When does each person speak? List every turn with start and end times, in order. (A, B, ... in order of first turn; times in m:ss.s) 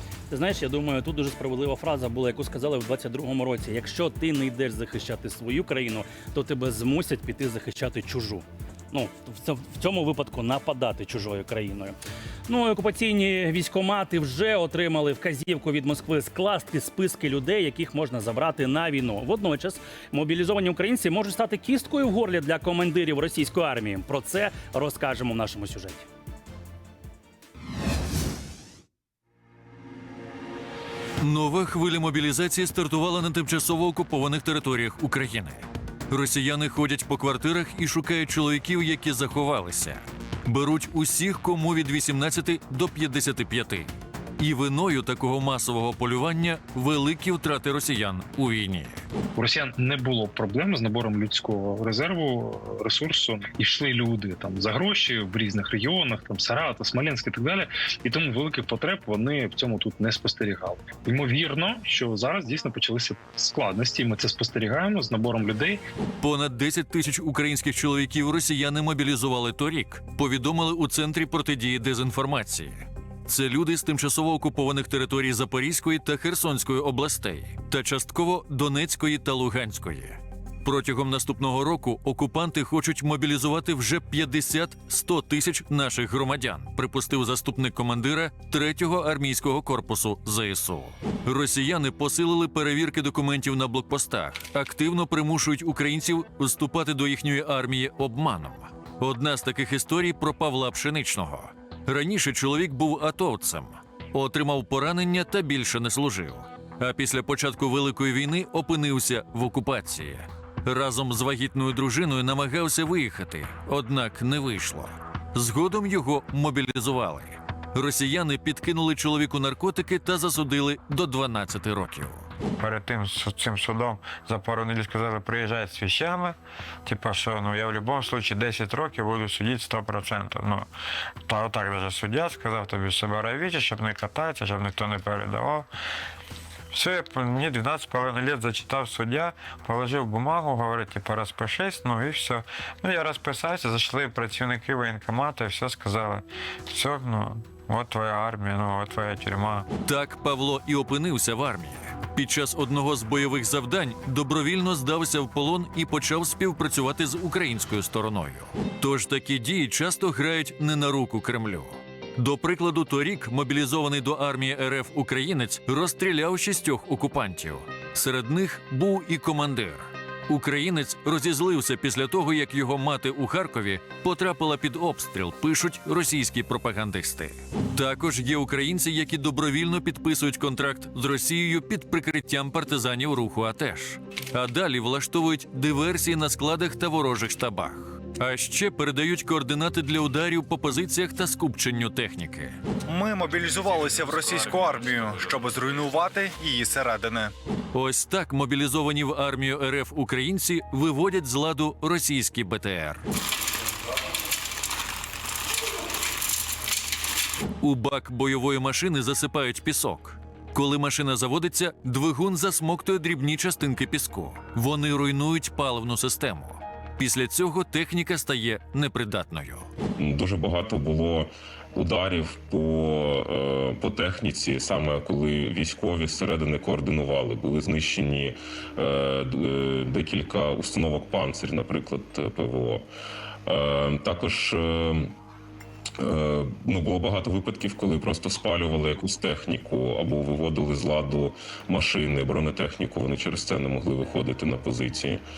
0:00.3-0:12.0 A
0:12.5-0:26.0 A
0:31.2-0:49.0 B
0:49.4-1:05.8 C
1:06.2-2:02.3 B
2:02.6-2:10.7 D
2:11.2-2:15.7 D
2:16.7-2:29.7 D
2:29.8-3:12.6 B
3:12.9-3:17.3 E
3:13.6-3:15.4 F
3:17.7-3:23.0 B
3:27.6-3:39.7 B
3:40.0-3:52.8 F
3:53.5-3:55.1 F
3:56.0-4:05.2 F